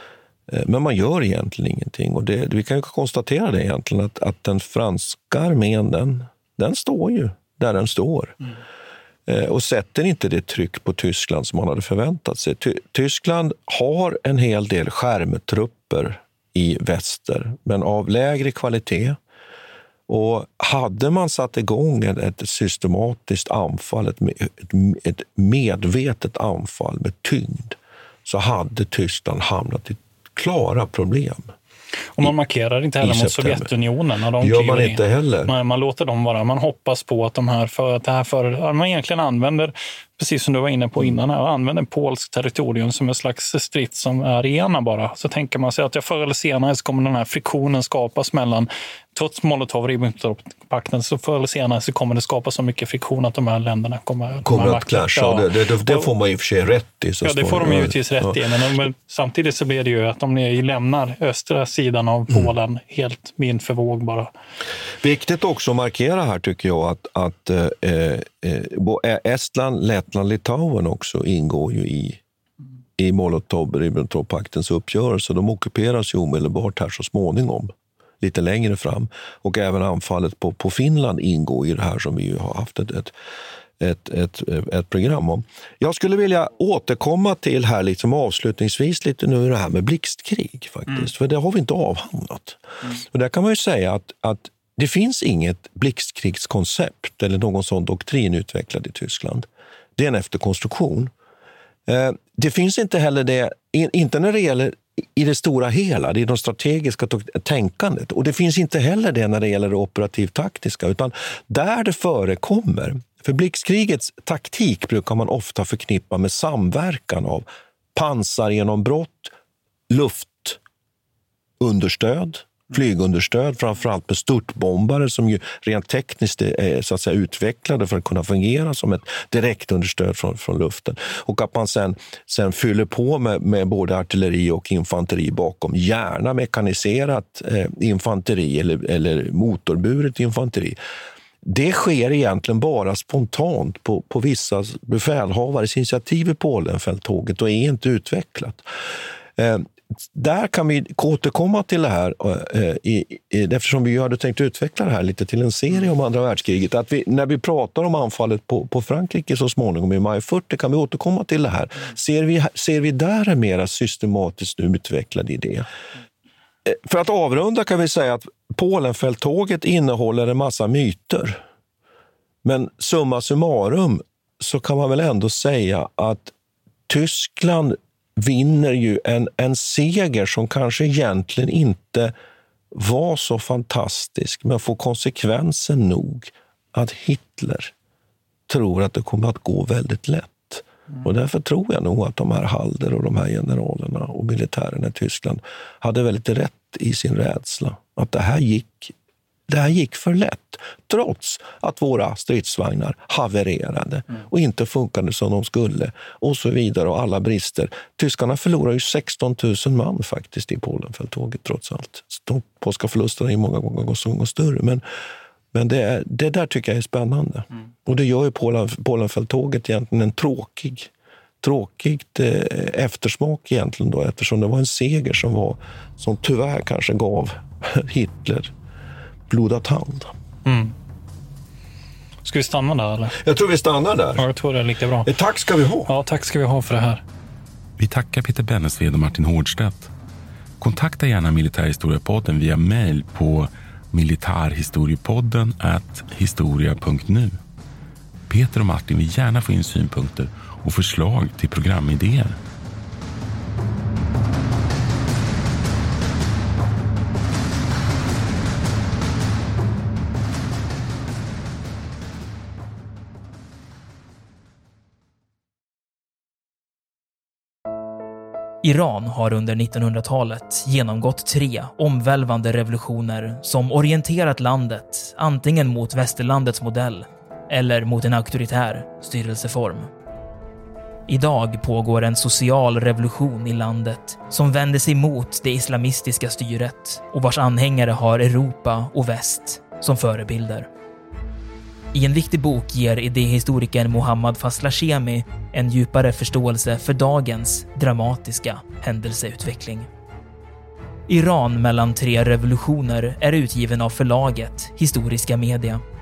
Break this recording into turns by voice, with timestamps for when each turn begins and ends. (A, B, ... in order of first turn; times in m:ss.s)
0:00.5-0:08.4 A
0:09.3-0:19.2 A
0:20.1-0:31.5 A
0:32.2-0:56.1 B
0:33.0-0:33.7 A
0:34.4-0:35.5 A
0:54.4-0:58.4 A
0:57.2-1:04.3 B
1:05.0-1:12.2 A
1:13.0-1:23.1 A
1:23.8-1:41.1 A
1:41.9-1:59.3 A
1:59.9-2:00.6 A
2:01.6-2:20.8 A
2:21.4-2:28.7 A
2:29.4-2:45.7 A
2:46.6-2:51.4 A
2:52.4-2:56.3 A
2:56.9-3:02.1 A
3:02.7-3:07.7 A
3:08.5-3:18.9 A
3:19.5-3:34.8 A
3:35.5-3:40.9 A
3:41.4-3:48.5 A
3:49.3-3:50.1 A
3:50.4-3:50.7 B
3:52.2-3:53.2 B
3:53.1-3:54.3 A
3:54.2-3:55.1 B
3:55.0-3:55.9 A
3:55.9-3:57.0 B
3:57.8-3:59.9 C
4:00.6-4:07.4 C
4:08.3-4:12.4 C
4:28.6-4:39.9 D
4:41.1-4:50.7 D
4:51.9-4:59.9 D
5:01.1-5:05.8 D